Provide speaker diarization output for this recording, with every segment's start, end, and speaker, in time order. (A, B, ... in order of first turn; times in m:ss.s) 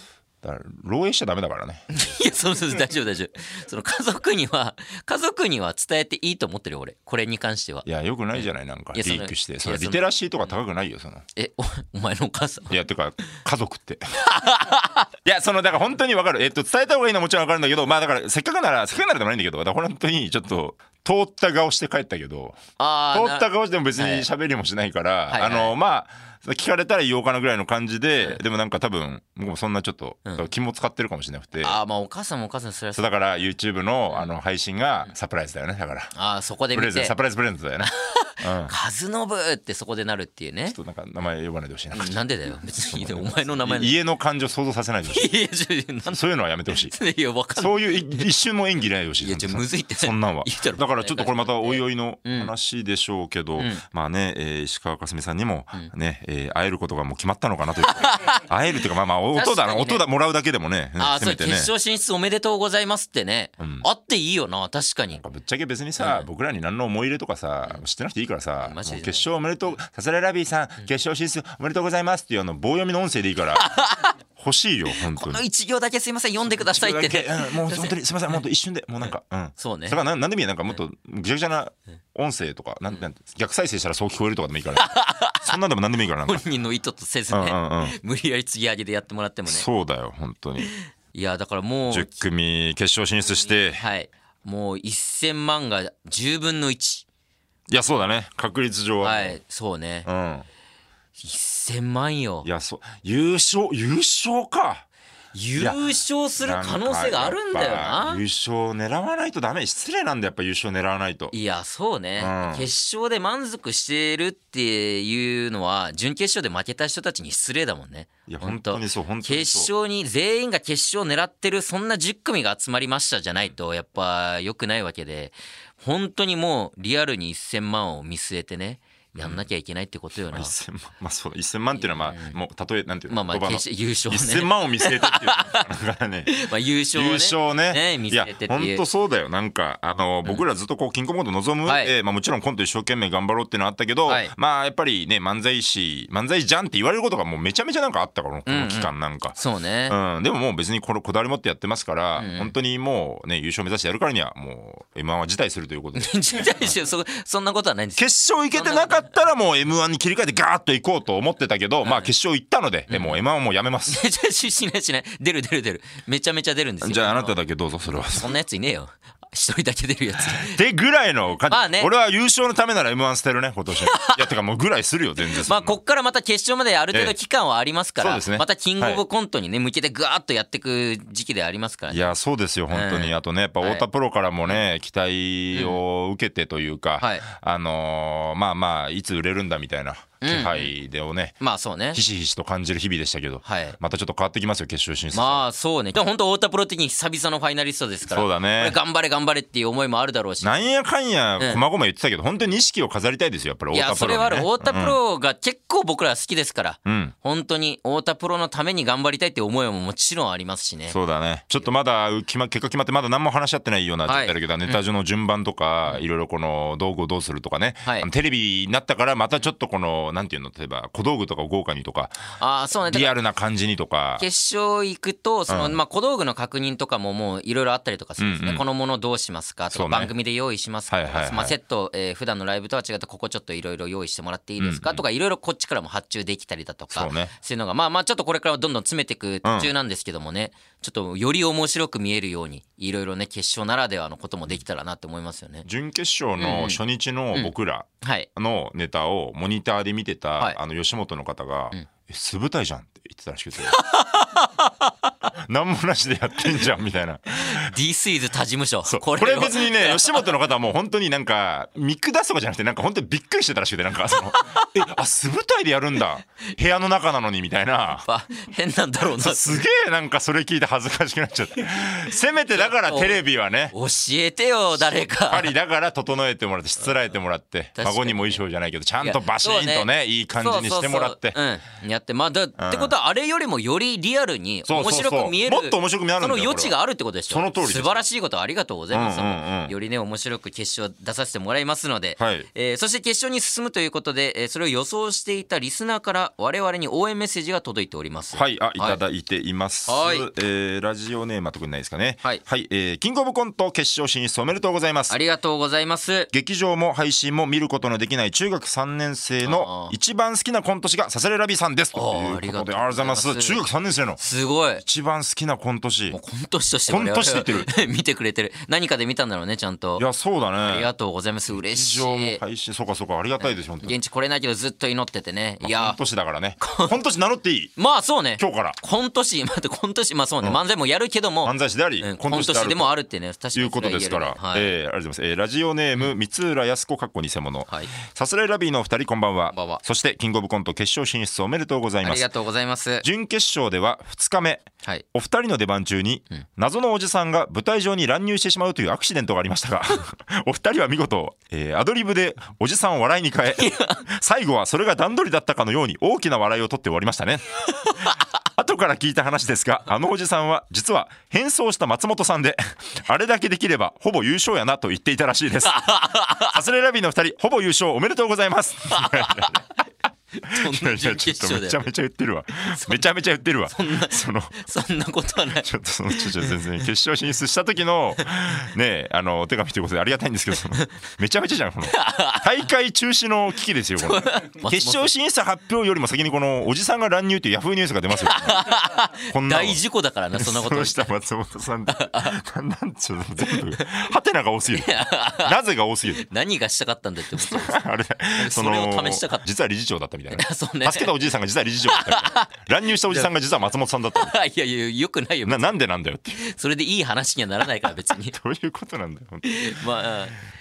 0:00.4-0:01.9 A
0:01.9-0:10.0 B
0:07.8-0:11.2 A
0:11.4-0:12.7 B
0:12.7-0:14.0 A
0:14.2-0:15.1 B
0:15.2-0:22.6 A
0:22.8-0:24.3 B
0:23.1-0:31.8 A
0:25.3-0:25.7 B
0:31.6-0:33.2 B
0:33.0-0:36.1 A
0:36.2-0:37.2 B
0:36.7-0:37.9 A
0:37.8-0:40.8 B
0:38.4-0:38.7 A
0:40.7-0:42.2 A
0:41.9-0:44.0 B
0:42.9-0:45.3 A
0:45.1-0:46.2 B
0:46.1-0:47.0 A
0:46.7-0:48.3 B
0:47.6-1:01.7 A
0:49.2-0:52.5 B
0:53.6-0:53.8 B
0:57.9-0:58.4 B
0:59.3-1:00.0 B
1:01.0-1:05.2 B
1:03.6-1:03.9 A
1:05.2-1:13.7 A
1:06.0-1:06.3 B
1:08.6-1:09.3 B
1:13.6-1:14.2 B
1:14.4-1:15.4 A
1:15.0-1:18.0 B
1:16.5-1:24.9 A
1:19.6-1:20.0 B
1:24.8-1:25.6 B
1:25.4-1:26.4 A
1:26.2-1:29.7 B
1:27.3-1:28.0 A
1:29.5-1:30.7 A
1:30.6-1:32.2 B
1:31.9-1:33.8 A
1:33.8-1:37.0 B
1:37.7-1:39.4 A
1:39.0-1:40.1 B
1:40.0-1:40.5 A
1:41.2-1:42.5 B
1:42.4-1:44.8 A
1:45.3-1:48.2 B
1:46.4-1:51.3 A
1:51.3-2:10.5 B
1:52.2-1:52.7 A
1:58.3-1:59.7 A
2:09.2-2:09.5 A
2:10.3-2:16.4 A
2:11.8-2:12.4 B
2:13.1-2:15.7 B
2:16.3-2:18.8 B
2:16.9-2:29.4 A
2:21.7-2:21.9 B
2:24.1-2:24.3 B
2:28.5-2:30.0 B
2:29.9-2:36.7 A
2:32.2-2:32.5 B
2:36.0-2:39.0 B
2:38.0-2:44.0 A
2:41.8-2:42.1 B
2:42.9-2:43.2 B
2:43.9-2:47.4 B
2:46.8-2:48.3 A
2:47.9-2:50.6 B
2:50.4-2:55.8 A
2:51.5-2:51.9 B
2:53.7-2:54.3 B
2:55.2-3:02.1 B
2:58.0-2:59.0 A
3:01.9-3:11.4 A
3:02.7-3:03.8 B
3:05.5-3:05.8 B
3:07.0-3:07.3 B
3:10.2-3:10.7 B
3:11.4-3:12.0 B
3:11.9-3:15.4 A
3:13.4-3:13.8 B
3:15.1-3:20.6 B
3:18.1-3:18.8 A
3:20.4-3:25.0 A
3:23.7-3:31.0 B
3:26.8-3:27.1 A
3:30.9-3:42.2 A
3:34.1-3:34.8 B
3:42.4-3:43.1 B
3:42.9-3:44.2 A
3:44.2-4:05.7 B
3:45.5-3:45.8 A
3:48.2-3:48.6 A
3:49.7-3:50.1 A
3:50.9-3:51.6 A
3:54.6-3:55.0 A
3:56.9-3:57.3 A
3:59.4-3:59.7 A
4:05.6-4:13.8 A
4:06.4-4:06.8 B
4:07.3-4:08.3 B
4:13.6-4:15.1 B
4:15.4-4:17.7 A
4:17.3-4:20.3 B
4:18.8-4:28.1 A
4:24.3-4:24.7 B
4:28.0-4:29.6 B
4:29.2-4:33.7 A
4:32.6-4:33.2 B
4:33.7-4:35.5 B
4:35.2-4:41.4 A
4:37.8-4:38.4 B
4:39.0-4:39.9 B
4:40.4-4:59.0 B
4:42.6-4:42.9 A
4:44.7-4:46.7 A
4:47.3-4:48.0 A
4:48.9-4:49.7 A
4:52.2-4:52.5 A
4:58.3-5:05.2 A
4:59.9-5:00.3 B
5:05.1-5:06.3 B
5:06.3-5:14.2 A
5:09.4-5:10.0 B
5:11.9-5:13.6 B
5:14.2-5:14.8 B
5:14.8-5:16.2 A
5:16.1-5:20.0 B
5:16.9-5:17.7 A
5:20.0-5:20.9 A
5:20.6-5:22.4 B
5:21.5-5:24.0 A
5:23.4-5:26.0 B
5:25.6-5:27.7 A
5:26.6-5:26.9 B
5:27.8-5:34.7 B
5:28.4-5:28.8 A
5:31.4-5:32.9 A
5:33.6-5:42.3 A
5:39.5-5:39.8 B
5:42.0-5:43.0 B
5:43.0-5:57.6 A
5:53.5-5:54.1 B
5:57.8-5:58.2 B
5:58.4-6:09.6 A
6:05.6-6:06.6 B
6:08.9-6:09.7 B
6:10.4-6:11.8 B
6:10.5-6:14.6 A
6:12.7-6:13.0 B
6:13.7-6:16.6 B
6:15.6-6:28.8 A
6:21.9-6:22.5 B
6:24.0-6:25.1 B
6:28.2-6:31.1 B
6:29.3-6:29.8 A
6:30.3-6:36.2 A
6:31.9-6:32.4 B
6:33.4-6:33.8 B
6:34.7-6:35.6 B
6:36.1-6:37.8 B
6:37.4-6:44.3 A
6:38.4-6:39.4 B
6:40.3-6:41.1 B
6:41.9-6:43.3 B
6:44.2-6:45.7 B
6:45.5-6:46.4 A
6:46.4-6:48.4 B
6:48.3-6:49.8 A
6:49.4-6:50.4 B